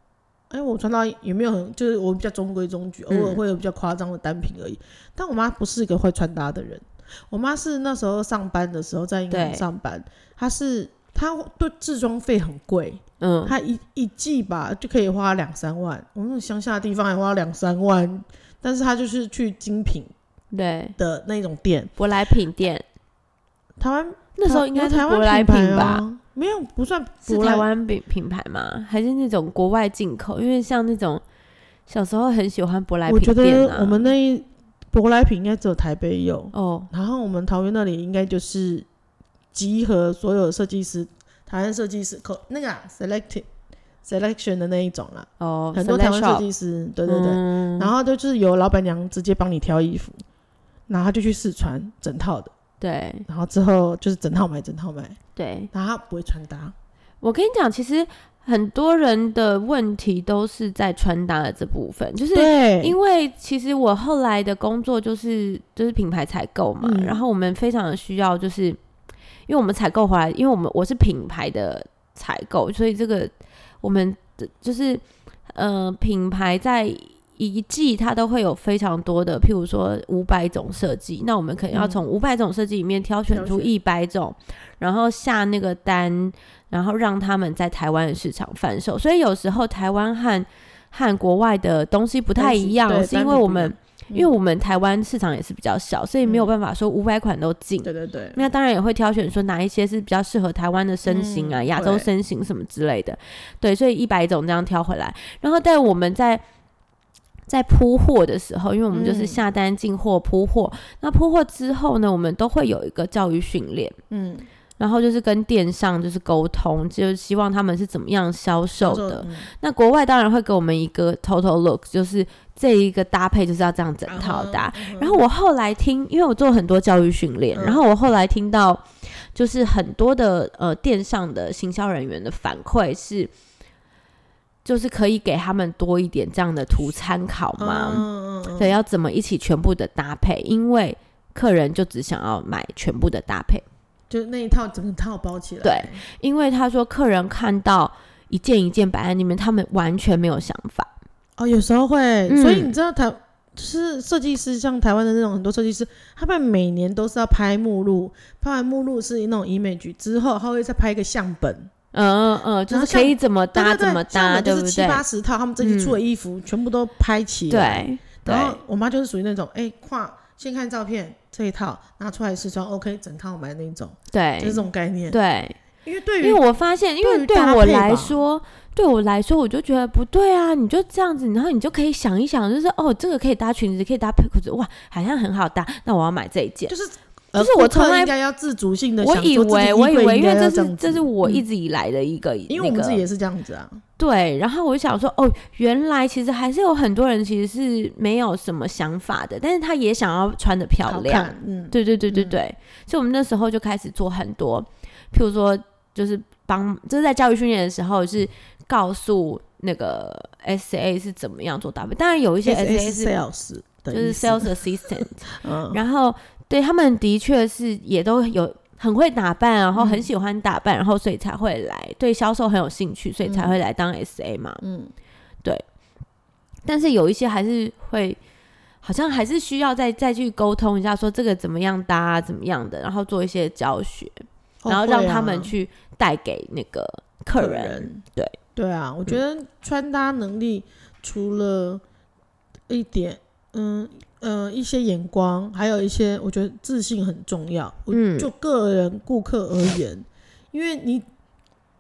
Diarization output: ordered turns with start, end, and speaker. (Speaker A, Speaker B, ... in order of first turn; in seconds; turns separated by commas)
Speaker A: 0.5-20.1, Speaker B: 3.1-3.4, Speaker B: 9.3-9.7, Speaker B: 13.2-13.6, Speaker B: 20.5-21.0, Speaker A: 21.0-21.9, Speaker B: 22.0-22.8, Speaker A: 23.8-27.7, Speaker B: 24.4-26.1, Speaker B: 27.3-31.2, Speaker B: 31.9-34.1, Speaker A: 33.1-38.9, Speaker B: 36.5-36.9, Speaker A: 39.5-43.5, Speaker A: 44.0-50.2, Speaker B: 45.4-46.5, Speaker B: 47.1-47.9, Speaker A: 50.9-52.5, Speaker B: 52.8-53.3, Speaker A: 53.3-55.2, Speaker B: 55.4-55.7, Speaker A: 55.7-56.8, Speaker B: 57.2-68.8, Speaker A: 62.3-63.0, Speaker A: 66.8-67.2, Speaker B: 69.5-73.3, Speaker B: 73.8-106.4, Speaker A: 81.7-82.0, Speaker A: 83.3-83.7, Speaker A: 92.4-94.3, Speaker A: 96.2-96.5, Speaker A: 97.8-98.4, Speaker A: 101.1-102.1, Speaker B: 107.5-114.0, Speaker A: 108.9-109.4, Speaker A: 114.1-114.5, Speaker B: 114.8-133.3, Speaker A: 118.8-119.5, Speaker A: 124.1-125.2, Speaker A: 127.5-127.8, Speaker B: 134.7-138.1, Speaker A: 137.6-138.8, Speaker B: 138.6-143.7, Speaker A: 144.1-146.0, Speaker B: 145.6-150.9, Speaker A: 151.4-161.7, Speaker B: 152.3-152.7, Speaker B: 161.9-165.0, Speaker A: 162.7-175.2, Speaker B: 165.6-166.0, Speaker B: 167.5-168.6, Speaker B: 174.1-175.6, Speaker A: 175.8-176.4, Speaker B: 176.2-186.8, Speaker A: 177.0-178.2, Speaker A: 186.7-191.5, Speaker B: 187.4-188.1, Speaker B: 189.0-193.0, Speaker A: 192.5-193.8, Speaker B: 194.0-213.1, Speaker A: 200.9-202.4, Speaker A: 212.4-214.6, Speaker B: 213.9-224.6, Speaker A: 215.3-215.8, Speaker A: 219.8-220.1, Speaker A: 223.2-223.6, Speaker A: 224.6-224.9, Speaker B: 226.7-228.2, Speaker B: 228.8-238.4, Speaker A: 234.6-235.5, Speaker A: 237.4-238.0, Speaker A: 238.6-241.8, Speaker A: 242.7-251.1, Speaker B: 247.9-248.3